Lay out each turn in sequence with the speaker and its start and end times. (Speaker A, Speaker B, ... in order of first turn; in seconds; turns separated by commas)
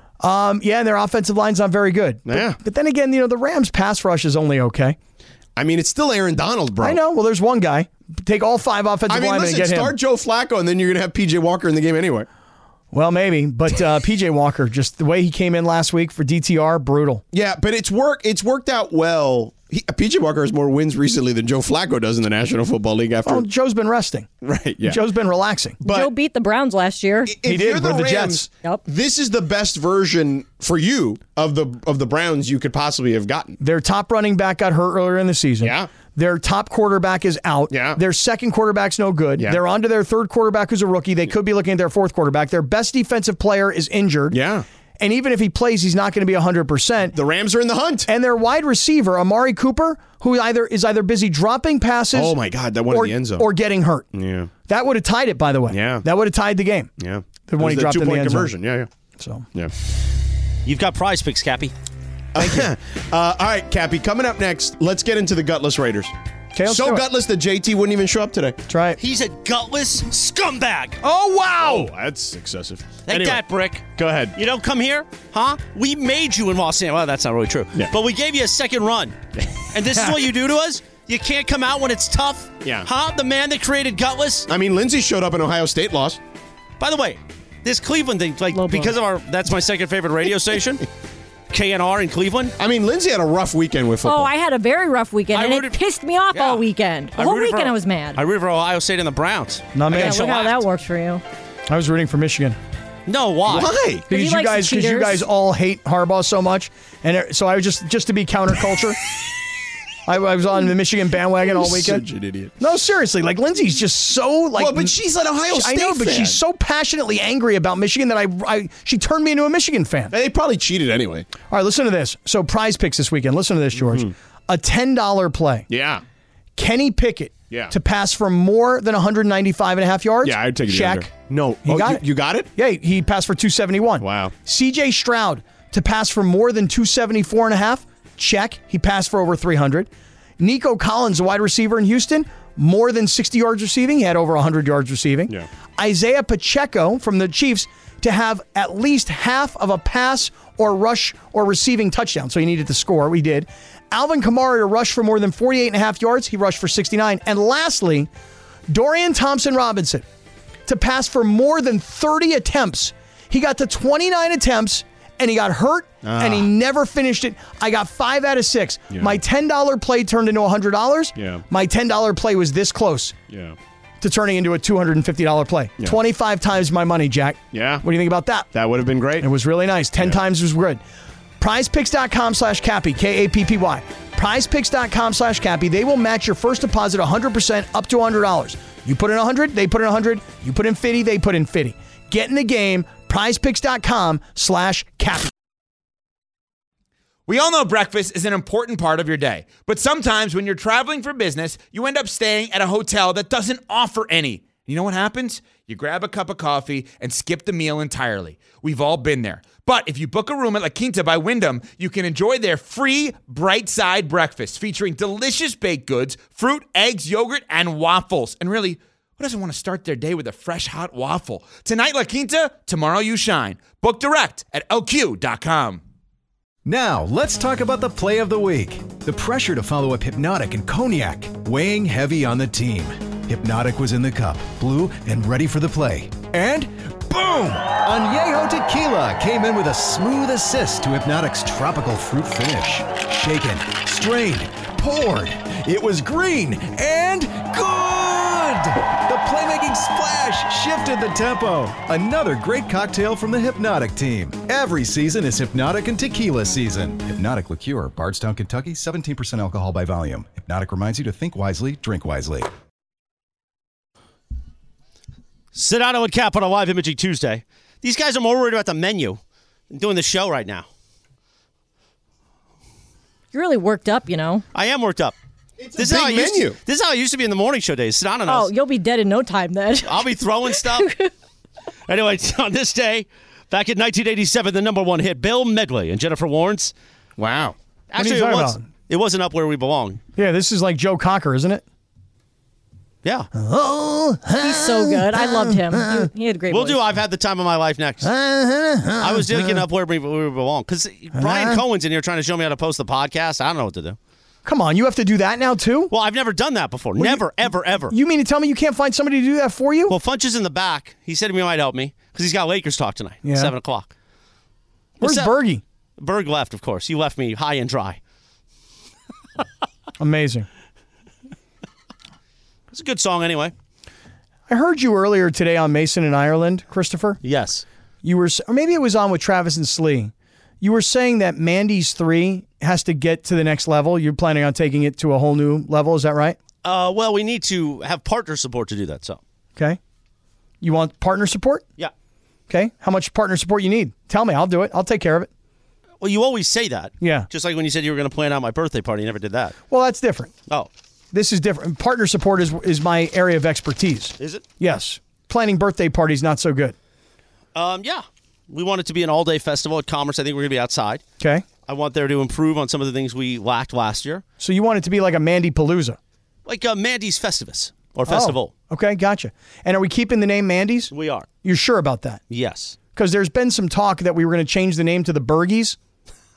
Speaker A: 0.2-5.0, Speaker B: 2.3-2.6, Speaker B: 5.5-7.0, Speaker A: 6.8-9.9, Speaker B: 9.1-12.3, Speaker A: 12.9-17.2, Speaker B: 17.3-23.4, Speaker A: 23.2-24.3, Speaker B: 24.4-25.0, Speaker A: 24.8-25.8, Speaker B: 25.8-26.1, Speaker C: 25.8-27.3, Speaker B: 27.3-33.6, Speaker A: 27.4-28.5, Speaker A: 33.6-44.4, Speaker B: 35.6-35.9, Speaker B: 37.7-38.0, Speaker B: 44.3-44.6, Speaker A: 45.0-47.1, Speaker B: 47.1-48.1, Speaker A: 48.0-54.1, Speaker B: 52.1-53.5, Speaker B: 54.1-54.5, Speaker A: 54.7-56.9, Speaker B: 55.7-56.0, Speaker B: 57.0-58.9, Speaker A: 57.5-58.5, Speaker A: 59.2-59.5, Speaker D: 60.6-61.7, Speaker B: 62.3-66.1, Speaker A: 62.4-62.7, Speaker A: 66.5-67.0, Speaker B: 66.6-68.6, Speaker A: 68.7-69.0, Speaker D: 69.0-71.0, Speaker A: 71.0-71.9, Speaker B: 71.6-73.4, Speaker D: 73.0-79.2, Speaker B: 74.0-74.3, Speaker D: 79.7-84.5, Speaker B: 82.6-82.9, Speaker B: 84.5-86.2, Speaker D: 86.8-90.8, Speaker C: 88.5-88.9, Speaker D: 91.5-92.5, Speaker B: 92.6-94.3, Speaker C: 94.0-98.2, Speaker D: 95.3-95.8, Speaker D: 96.3-96.6, Speaker D: 97.1-100.6, Speaker A: 99.7-100.2, Speaker C: 99.9-101.2, Speaker A: 101.7-102.6, Speaker D: 103.1-103.7, Speaker B: 103.5-104.1, Speaker C: 104.1-105.2, Speaker A: 104.1-109.0, Speaker A: 110.0-112.0, Speaker B: 111.5-112.5, Speaker A: 112.6-114.9, Speaker B: 114.5-116.4, Speaker A: 115.5-120.1, Speaker B: 120.1-121.3, Speaker A: 121.5-125.7, Speaker B: 123.8-124.1, Speaker B: 125.7-126.0, Speaker A: 126.5-131.1, Speaker B: 130.2-132.5, Speaker A: 131.6-132.0, Speaker A: 132.5-158.1, Speaker B: 134.0-134.3, Speaker A: 158.7-160.0, Speaker A: 160.7-173.1, Speaker B: 166.0-166.5, Speaker B: 168.9-169.2, Speaker B: 171.2-171.4, Speaker B: 173.3-173.6, Speaker A: 174.0-178.5, Speaker B: 177.5-177.8, Speaker B: 178.5-179.3, Speaker A: 179.2-180.8, Speaker A: 181.4-195.3, Speaker E: 197.3-225.8, Speaker F: 226.6-262.5, Speaker D: 265.5-269.2, Speaker D: 269.7-270.7, Speaker C: 273.3-274.4, Speaker D: 274.5-275.1, Speaker B: 275.6-276.6, Speaker D: 275.8-278.5, Speaker C: 278.2-281.1, Speaker D: 279.8-280.9, Speaker D: 281.9-286.7, Speaker B: 287.2-287.5, Speaker D: 287.9-290.0, Speaker A: 288.0-288.6, Speaker A: 290.2-291.6, Speaker D: 293.0-293.3, Speaker A: 293.3-296.1, Speaker C: 294.4-296.8, Speaker D: 296.5-298.1, Speaker A: 298.0-299.6, Speaker D: 299.0-304.0, Speaker A: 301.1-301.6, Speaker A: 304.4-305.9, Speaker D: 305.9-307.9, Speaker A: 307.0-309.9, Speaker D: 309.9-313.9, Speaker A: 313.2-313.5, Speaker D: 315.0-315.3, Speaker A: 315.0-315.6, Speaker D: 316.0-318.0, Speaker A: 320.0-320.5, Speaker D: 322.7-323.5, Speaker A: 324.5-327.2, Speaker D: 327.2-327.6, Speaker A: 328.0-336.4, Speaker D: 336.6-339.2, Speaker A: 340.6-341.6, Speaker A: 342.5-345.3, Speaker D: 346.0-349.6, Speaker A: 347.0-347.3, Speaker A: 349.7-350.3, Speaker A: 351.1-356.8, Speaker D: 357.5-361.0, Speaker A: 361.2-361.4, Speaker D: 361.7-364.2, Speaker A: 364.4-366.0, Speaker D: 366.4-368.5, Speaker A: 368.1-370.9, Speaker D: 370.9-371.3, Speaker A: 371.4-372.2, Speaker D: 372.3-372.8, Speaker A: 372.9-375.8